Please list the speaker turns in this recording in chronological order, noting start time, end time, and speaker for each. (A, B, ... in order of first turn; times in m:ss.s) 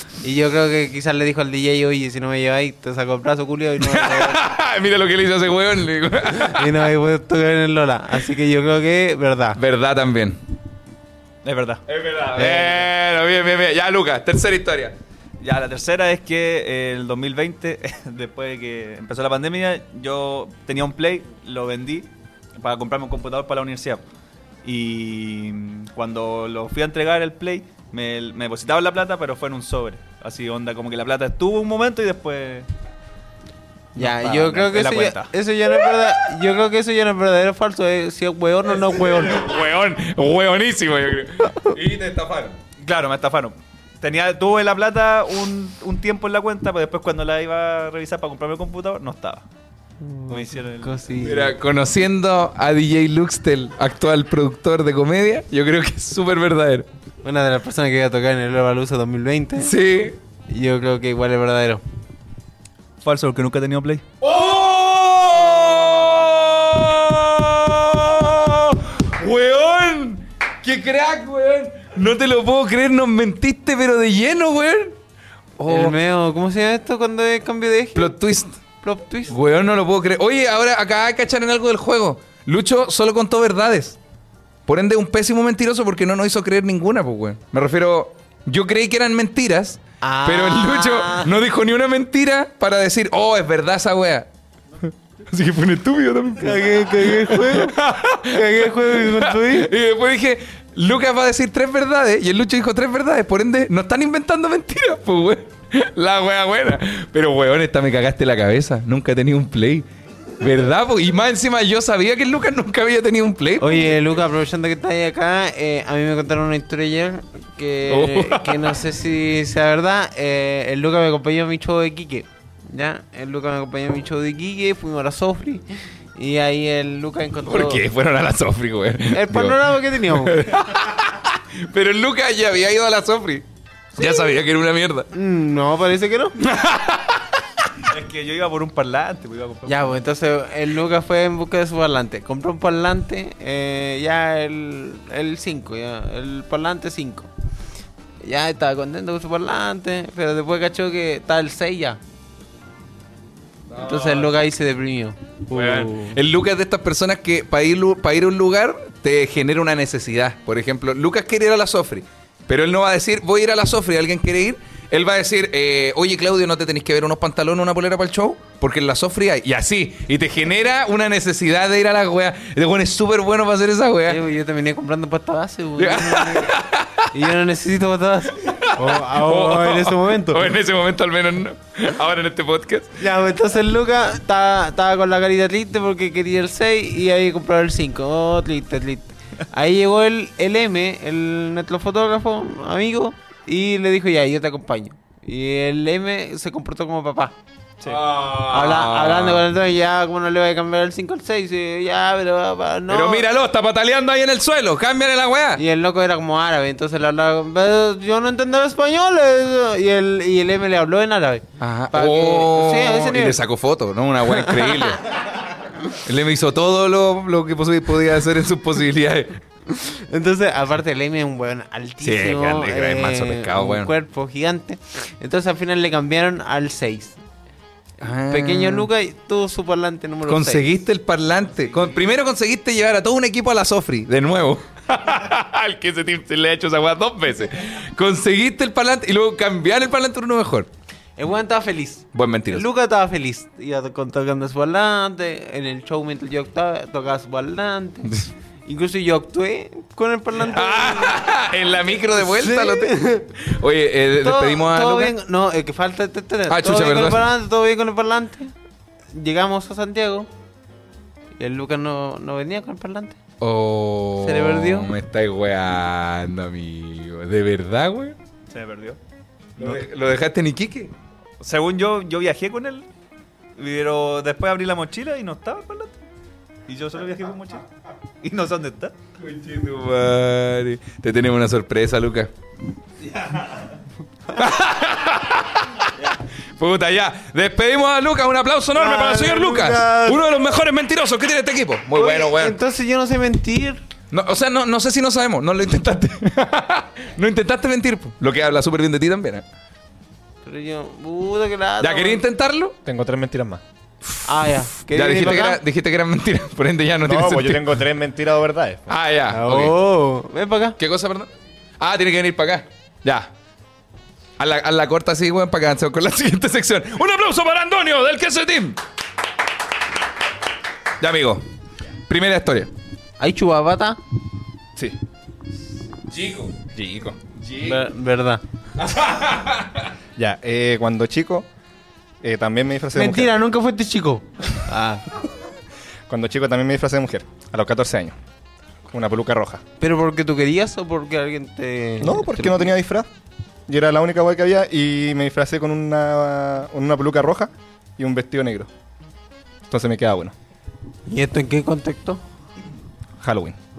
0:00.2-0:04.4 A
0:03.8-0:06.8 B
0:06.3-0:09.6 A
0:09.6-0:10.4 B
0:11.4-0:11.8 C
0:11.9-0:15.0 B
0:12.4-0:12.9 A
0:15.4-0:24.0 C
0:24.6-0:32.7 C
0:33.9-0:39.5 A
0:34.0-0:35.3 C
0:38.8-0:42.6 B
0:42.8-0:49.4 C
0:50.0-0:51.5 A
0:50.3-0:51.3 C
0:51.2-0:56.9 B
0:57.2-0:59.7 A
0:59.6-1:00.2 B
1:00.5-1:01.8 A
1:03.0-1:04.0 C
1:04.2-1:15.0 B
1:15.6-1:16.0 B
1:15.7-1:18.1 A
1:17.9-1:18.6 B
1:18.8-1:19.3 A
1:19.3-1:24.0 B
1:24.6-1:34.3 B
1:30.0-1:31.3 A
1:35.3-1:49.8 B
1:36.4-1:37.8 A
1:38.3-1:39.7 A
1:50.4-1:54.0 B
1:53.6-2:07.8 A
1:57.9-1:58.8 B
2:07.5-2:15.1 B
2:09.1-2:10.5 A
2:14.0-2:14.3 A
2:15.1-2:16.4 A
2:16.4-2:17.4 B
2:17.8-2:20.0 C
2:19.6-2:27.3 A
2:28.2-2:32.0 A
2:33.7-2:34.4 B
2:33.8-2:36.2 A
2:35.5-2:54.2 B
2:54.1-2:56.5 A
2:55.8-2:57.1 B
2:57.1-3:00.5 A
2:58.4-3:02.9 B
3:03.0-3:17.3 A
3:17.8-3:19.4 B
3:18.3-3:23.2 A
3:22.9-3:25.6 B
3:25.6-3:33.4 A
3:31.6-3:35.1 B
3:34.3-3:34.9 A
3:35.9-3:39.4 B
3:39.7-3:47.2 A
3:42.0-3:43.9 B
3:48.0-3:48.9 B
3:48.1-3:50.7 A
3:50.2-4:00.7 B
4:01.2-4:11.3 A
4:02.1-4:02.6 B
4:10.4-4:15.1 B
4:12.2-4:13.3 A
4:14.2-4:18.5 A
4:16.5-4:17.2 B
4:19.1-4:20.3 A
4:21.4-4:23.2 A
4:23.4-4:28.2 B
4:24.2-4:24.9 A
4:28.5-4:29.0 C
4:29.6-4:30.9 B
4:29.6-4:29.8 C
4:31.4-4:32.9 C
4:33.6-4:36.0 C
4:36.7-4:37.6 C
4:38.2-4:38.9 C
4:39.2-4:42.3 B
4:43.2-4:43.6 C
4:44.3-4:45.9 B
4:46.6-4:52.6 B
4:48.7-4:50.2 A
4:51.9-4:53.8 A
4:54.1-4:59.4 B
5:00.4-5:02.2 A
5:01.8-5:02.7 B
5:02.8-5:03.6 D
5:04.2-5:05.6 A
5:04.9-5:07.7 B
5:07.0-5:09.0 D
5:08.9-5:09.7 B
5:09.3-5:10.8 A
5:10.8-5:11.3 B
5:11.8-5:13.3 B
5:14.4-5:18.8 B
5:21.0-5:21.4 B
5:22.1-5:22.7 B
5:23.2-5:24.0 A
5:26.1-5:26.7 B
5:26.7-5:27.2 D
5:27.3-5:27.8 B
5:27.6-5:28.4 A
5:28.8-5:29.9 B
5:30.2-5:31.4 D
5:32.2-5:33.3 D
5:32.9-5:35.0 A
5:36.1-5:38.2 D
5:38.9-5:39.6 D
5:39.8-5:42.7 A
5:42.0-5:43.1 D
5:43.7-5:48.7 D
5:49.7-5:50.3 D
5:51.1-5:52.2 A
5:53.2-5:53.6 D